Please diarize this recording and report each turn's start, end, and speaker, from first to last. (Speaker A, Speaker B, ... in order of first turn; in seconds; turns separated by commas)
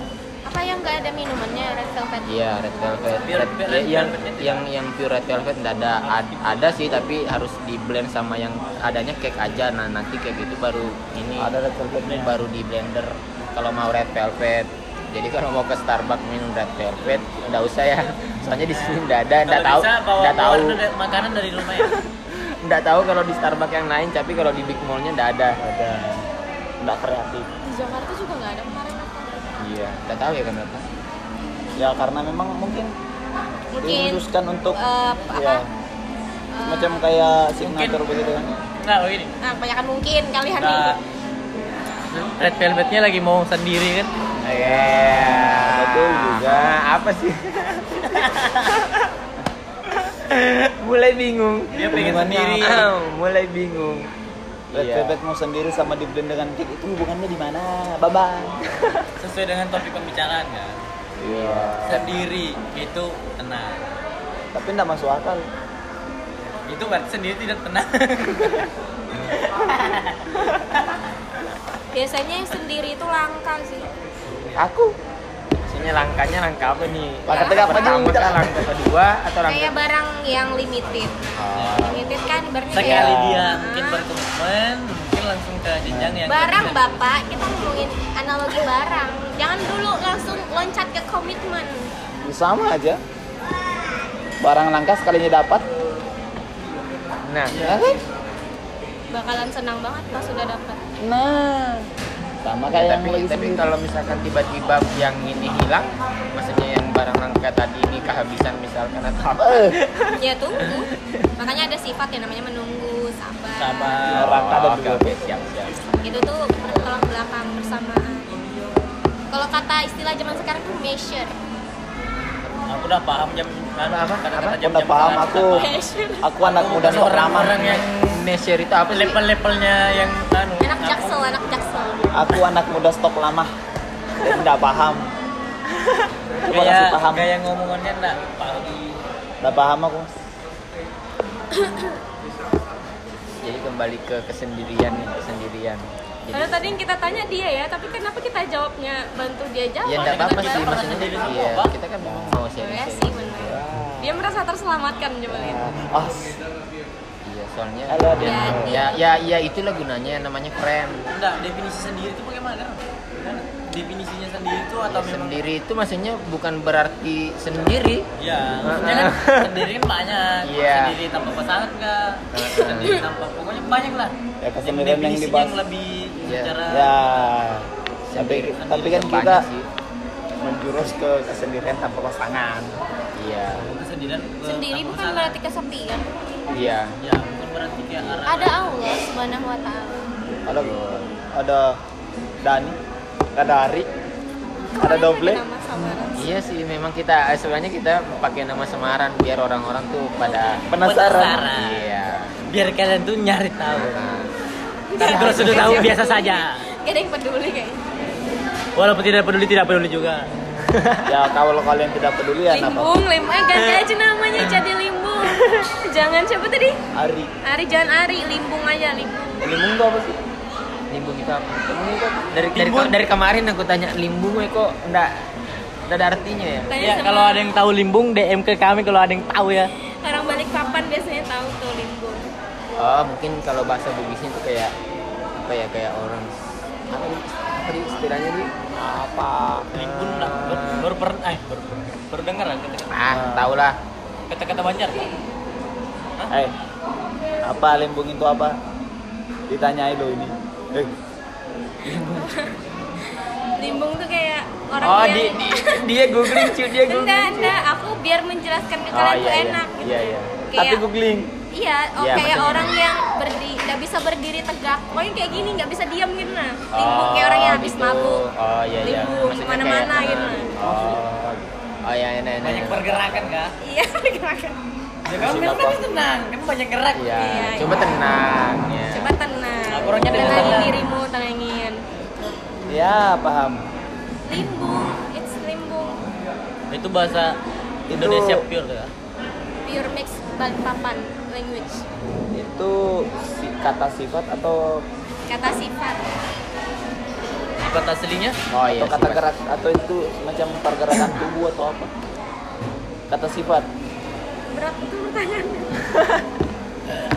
Speaker A: 0.5-2.5, Speaker B: 2.3-11.6, Speaker C: 3.2-4.7, Speaker C: 6.0-7.0, Speaker D: 11.4-12.3, Speaker C: 12.1-12.3, Speaker B: 12.1-20.8, Speaker C: 18.7-22.0, Speaker B: 21.8-25.6, Speaker D: 25.6-26.2, Speaker D: 26.8-27.5, Speaker A: 27.6-29.6, Speaker B: 29.6-30.9, Speaker D: 31.8-32.9, Speaker A: 33.7-34.2, Speaker D: 33.8-34.8, Speaker A: 34.8-35.6, Speaker D: 35.3-35.7, Speaker A: 36.5-37.1, Speaker D: 36.7-38.5, Speaker C: 37.6-38.1, Speaker C: 38.6-39.3, Speaker A: 39.4-41.0, Speaker C: 40.6-41.0, Speaker C: 42.1-44.1, Speaker D: 44.4-46.8, Speaker B: 44.5-49.1, Speaker C: 48.2-48.6, Speaker B: 49.9-54.1, Speaker C: 51.7-52.9, Speaker B: 54.7-55.2, Speaker D: 54.7-58.6, Speaker B: 58.8-59.0, Speaker C: 59.2-60.8, Speaker B: 61.2-62.1, Speaker D: 61.2-62.2, Speaker C: 61.8-63.8, Speaker D: 64.5-65.5, Speaker C: 66.7-68.7, Speaker C: 69.3-70.8, Speaker A: 71.9-73.9, Speaker D: 74.6-75.0, Speaker B: 75.6-79.9, Speaker D: 77.3-78.6, Speaker A: 77.3-78.4, Speaker A: 79.5-81.2, Speaker B: 81.4-82.1, Speaker C: 81.5-82.0, Speaker A: 81.8-84.1, Speaker C: 82.7-87.0, Speaker B: 82.8-83.5, Speaker D: 85.9-86.3, Speaker A: 86.3-91.9, Speaker D: 92.2-93.0, Speaker D: 94.4-95.7, Speaker B: 97.2-97.8, Speaker D: 97.6-98.0, Speaker A: 99.1-100.8, Speaker D: 101.0-101.9, Speaker D: 102.4-103.7, Speaker B: 102.7-110.1, Speaker A: 110.2-114.0, Speaker C: 113.6-114.4, Speaker B: 114.1-115.8, Speaker D: 114.1-115.2, Speaker A: 116.0-118.3, Speaker A: 119.3-121.3, Speaker C: 122.7-125.8, Speaker B: 123.8-124.6, Speaker D: 124.6-125.7, Speaker A: 125.5-126.3, Speaker D: 126.2-127.6, Speaker C: 126.4-128.2, Speaker B: 126.8-129.2, Speaker C: 128.9-131.3, Speaker A: 130.6-132.1, Speaker D: 132.1-133.5, Speaker D: 134.2-135.1, Speaker C: 136.5-139.0, Speaker D: 136.5-137.3, Speaker D: 139.4-140.1, Speaker A: 141.5-141.9, Speaker B: 143.4-146.8, Speaker A: 146.3-151.2, Speaker B: 149.8-153.6, Speaker C: 149.9-151.7, Speaker D: 152.0-152.4, Speaker A: 152.6-155.7, Speaker D: 153.5-154.2, Speaker D: 155.3-156.4, Speaker B: 157.2-161.1, Speaker D: 157.9-158.8, Speaker A: 158.2-159.0, Speaker C: 161.1-165.4, Speaker B: 164.9-168.1, Speaker C: 168.2-177.0, Speaker B: 168.6-169.6, Speaker B: 170.4-171.0, Speaker B: 172.3-173.0, Speaker D: 174.4-175.6, Speaker B: 176.2-176.6, Speaker D: 176.7-179.5, Speaker B: 178.1-179.7, Speaker C: 178.6-179.2, Speaker D: 180.4-182.7, Speaker B: 183.2-183.7, Speaker C: 183.5-185.4, Speaker A: 184.4-186.2, Speaker B: 186.5-187.0, Speaker C: 187.0-188.8, Speaker B: 188.0-188.2, Speaker A: 188.2-190.1, Speaker B: 190.5-191.1, Speaker D: 190.5-191.8, Speaker D: 192.4-192.8, Speaker D: 193.3-193.9, Speaker D: 194.8-195.4, Speaker A: 194.8-196.4, Speaker B: 196.2-202.4, Speaker D: 200.7-201.4, Speaker C: 200.7-204.0, Speaker B: 203.7-204.3, Speaker A: 204.9-207.8, Speaker C: 205.0-206.6, Speaker B: 205.0-205.8, Speaker D: 205.3-205.7, Speaker C: 208.8-210.3, Speaker B: 210.7-211.2, Speaker D: 211.1-213.0, Speaker A: 212.5-216.8, Speaker B: 213.5-213.8, Speaker D: 216.9-217.3, Speaker A: 217.4-219.3, Speaker D: 219.4-220.2, Speaker B: 220.9-221.8, Speaker D: 221.7-222.3, Speaker B: 222.3-225.2, Speaker C: 222.5-223.0, Speaker B: 225.9-226.7, Speaker A: 226.7-227.5, Speaker C: 226.8-229.7, Speaker A: 230.0-232.3, Speaker B: 232.8-234.7, Speaker B: 235.4-236.3, Speaker B: 236.9-238.5, Speaker D: 238.8-239.7, Speaker C: 239.7-243.0, Speaker B: 239.8-240.9, Speaker B: 242.9-243.8, Speaker D: 243.1-243.5, Speaker C: 244.3-245.1, Speaker D: 246.3-246.6, Speaker D: 247.4-248.6, Speaker D: 249.5-250.9, Speaker D: 251.8-252.3, Speaker A: 252.0-252.6, Speaker A: 253.6-260.9, Speaker B: 254.8-257.6, Speaker B: 258.9-260.4, Speaker D: 260.6-261.3, Speaker A: 261.5-268.2, Speaker B: 262.0-262.8, Speaker B: 266.7-273.4, Speaker A: 268.8-270.5, Speaker D: 270.6-271.4, Speaker C: 272.4-273.6, Speaker A: 273.6-274.6, Speaker C: 275.1-277.1, Speaker D: 275.1-275.9, Speaker B: 276.9-279.1, Speaker A: 277.2-277.9, Speaker A: 278.9-281.8, Speaker C: 279.7-280.8, Speaker B: 279.8-280.7, Speaker D: 282.7-283.6, Speaker A: 284.3-286.0, Speaker C: 286.7-287.4, Speaker D: 287.9-288.5, Speaker C: 287.9-288.9, Speaker A: 289.6-291.8, Speaker D: 292.3-294.8, Speaker A: 295.3-296.1, Speaker C: 297.6-298.4, Speaker B: 298.5-299.3, Speaker D: 298.6-301.9, Speaker D: 303.1-303.7, Speaker A: 304.5-305.8